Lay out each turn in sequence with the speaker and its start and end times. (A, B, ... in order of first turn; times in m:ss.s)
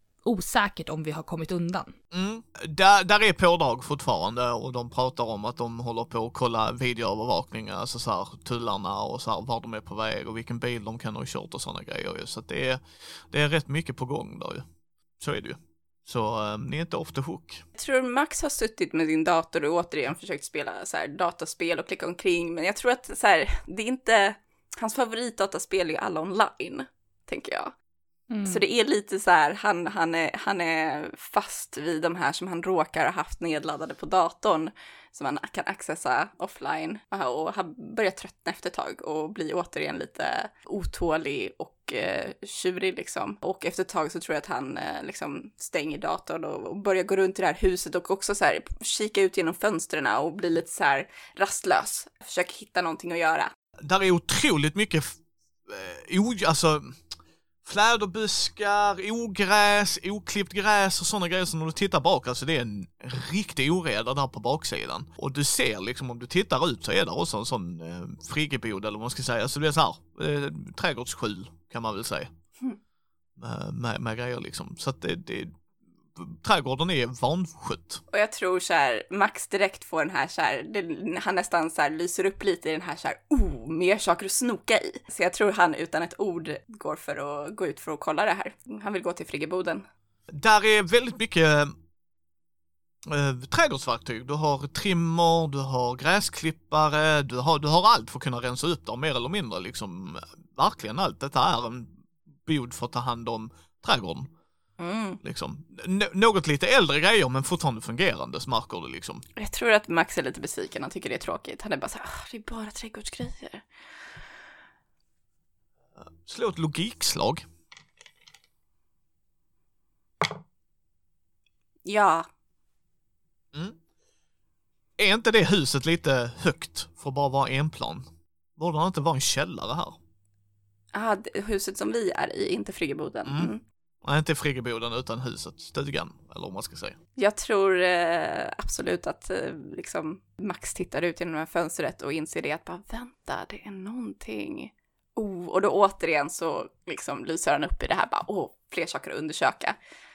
0:00.2-0:01.9 A
0:02.1-0:14.6 B
0:15.2-0:17.6 B
0:17.8-0:27.7 C
0:28.3-0:28.6 A
0:28.4-0:53.5 C
0:53.8-0:57.0 B
0:57.6-1:12.3 B
1:13.4-1:15.6 B
1:16.1-1:18.0 B
1:18.1-1:29.8 C
1:30.3-1:31.7 B
1:33.1-1:44.3 B
1:44.8-1:45.2 C
1:45.2-1:49.2 B
1:49.4-1:53.6 C
1:56.0-1:57.4 B
2:01.8-2:02.2 C
2:05.0-2:08.0 B
2:08.6-2:10.0 B
2:10.9-2:13.6 C
2:13.2-2:13.5 B
2:14.0-2:17.0 B
2:17.2-2:29.8 C